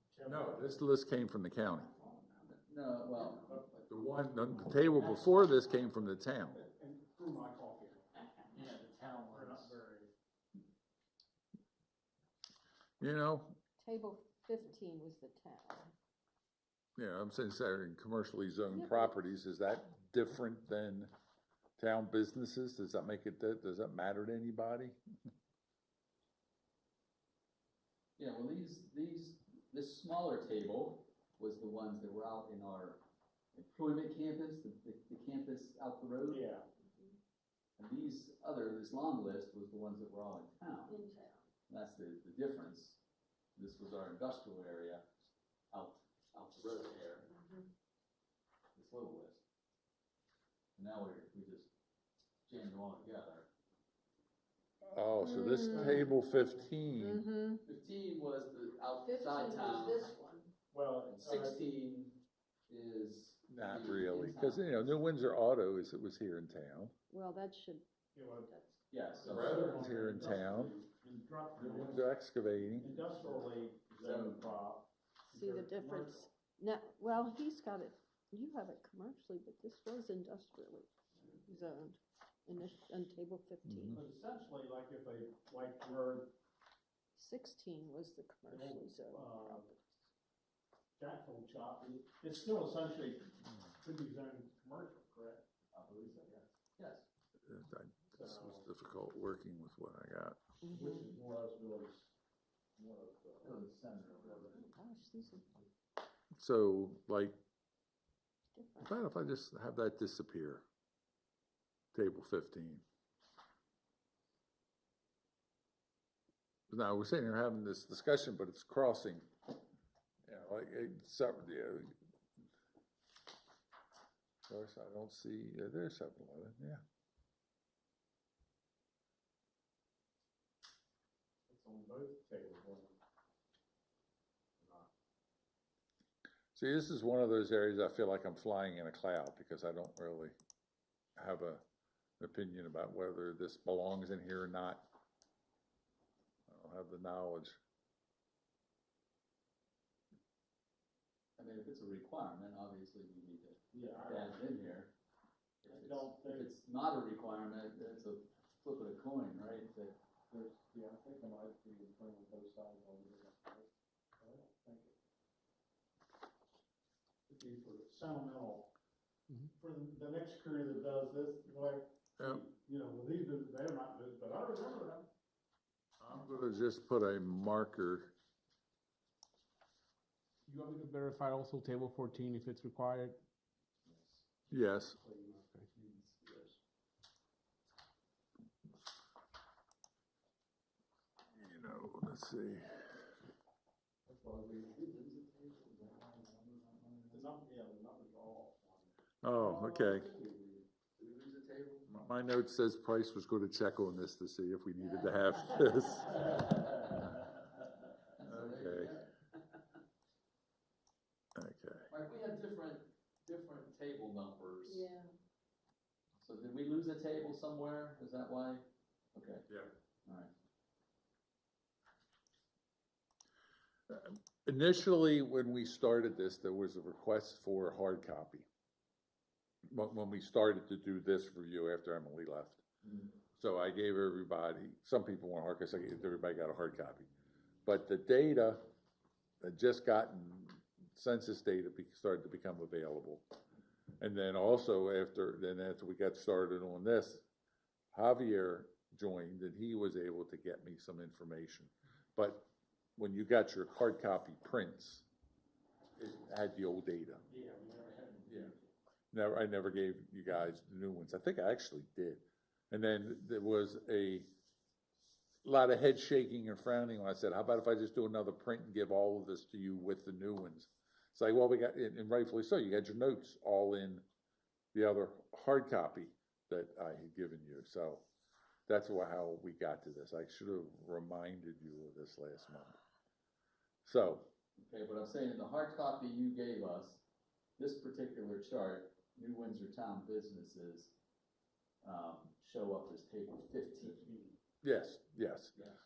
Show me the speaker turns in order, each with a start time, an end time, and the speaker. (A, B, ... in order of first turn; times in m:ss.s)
0:00.1-0:00.9 A
0:00.2-0:01.9 B
0:02.4-0:03.9 C
0:03.9-0:06.6 B
0:06.5-0:08.6 A
0:08.8-0:09.5 C
0:09.3-0:10.1 A
0:13.0-0:13.6 B
0:13.8-0:15.9 D
0:17.0-0:21.1 B
0:18.7-0:19.2 D
0:21.8-0:25.0 B
0:28.2-0:33.0 C
0:33.5-0:36.5 C
0:36.3-0:36.7 A
0:36.8-0:37.2 D
0:37.8-0:41.0 C
0:40.9-0:41.5 D
0:41.7-0:43.0 C
0:43.6-0:45.0 C
0:45.7-0:47.3 C
0:47.3-0:47.7 D
0:48.8-0:49.4 C
0:50.8-0:51.7 C
0:52.5-0:53.5 C
0:54.8-0:57.2 B
0:55.2-0:56.2 D
0:55.6-0:56.7 A
0:57.0-0:57.6 D
0:57.6-1:00.1 C
0:59.0-1:00.5 D
1:00.7-1:01.6 A
1:01.1-1:05.0 C
1:03.5-1:06.9 B
1:07.1-1:07.9 D
1:08.1-1:08.5 A
1:08.5-1:08.7 D
1:08.9-1:09.8 C
1:09.1-1:12.0 A
1:09.2-1:10.8 B
1:11.6-1:13.0 B
1:12.7-1:16.3 A
1:14.0-1:14.5 C
1:15.3-1:20.9 D
1:21.5-1:24.0 D
1:23.6-1:24.0 B
1:23.9-1:26.3 A
1:27.2-1:29.7 D
1:28.5-1:29.7 A
1:31.0-1:35.4 A
1:35.7-1:37.1 C
1:37.5-1:40.4 B
1:38.1-1:38.7 A
1:40.6-1:41.2 D
1:40.7-1:42.1 A
1:42.8-1:43.6 A
1:43.4-1:44.7 C
1:44.2-1:44.6 A
1:44.5-1:45.5 D
1:46.4-1:47.4 B
1:48.5-1:48.9 D
1:48.8-1:50.6 B
1:51.9-1:52.8 B
1:56.7-1:59.3 B
2:00.3-2:01.9 B
2:04.5-2:06.8 B
2:11.5-2:13.0 A
2:14.6-2:14.9 A
2:16.6-2:20.4 B
2:21.2-2:21.6 B
2:22.2-2:24.9 B
2:26.5-2:27.6 B
2:31.4-2:34.9 C
2:33.7-2:34.4 A
2:35.6-2:40.0 C
2:35.7-2:36.5 A
2:40.3-2:44.9 A
2:47.3-2:48.7 A
2:49.6-2:55.1 A
2:52.2-2:52.4 B
2:56.0-2:58.1 B
3:00.6-3:03.2 E
3:04.5-3:05.0 B
3:05.0-3:05.4 A
3:11.3-3:12.9 B
3:14.1-3:17.3 C
3:17.1-3:20.3 A
3:19.2-3:20.1 B
3:19.8-3:21.9 C
3:21.9-3:26.5 B
3:26.1-3:29.6 C
3:28.2-3:29.0 B
3:31.4-3:31.9 B
3:31.9-3:34.9 C
3:34.6-3:35.1 D
3:36.2-3:39.5 C
3:40.0-3:40.3 C
3:43.9-3:48.5 B
3:49.7-3:52.6 B
3:52.8-3:53.1 C
3:53.4-3:57.1 B
3:57.6-3:58.7 B
3:59.4-4:03.2 B
4:04.0-4:07.2 B
4:07.9-4:15.1 B
4:16.0-4:17.2 B
4:17.3-4:18.7 A
4:18.3-4:18.5 B
4:19.1-4:24.3 B
4:25.4-4:34.0 B
4:34.7-4:38.0 B
4:38.7-4:42.8 B
4:43.8-4:44.3 B
4:44.6-4:47.0 C
4:47.6-4:50.9 C
4:51.8-4:54.3 C
4:54.6-4:55.6 B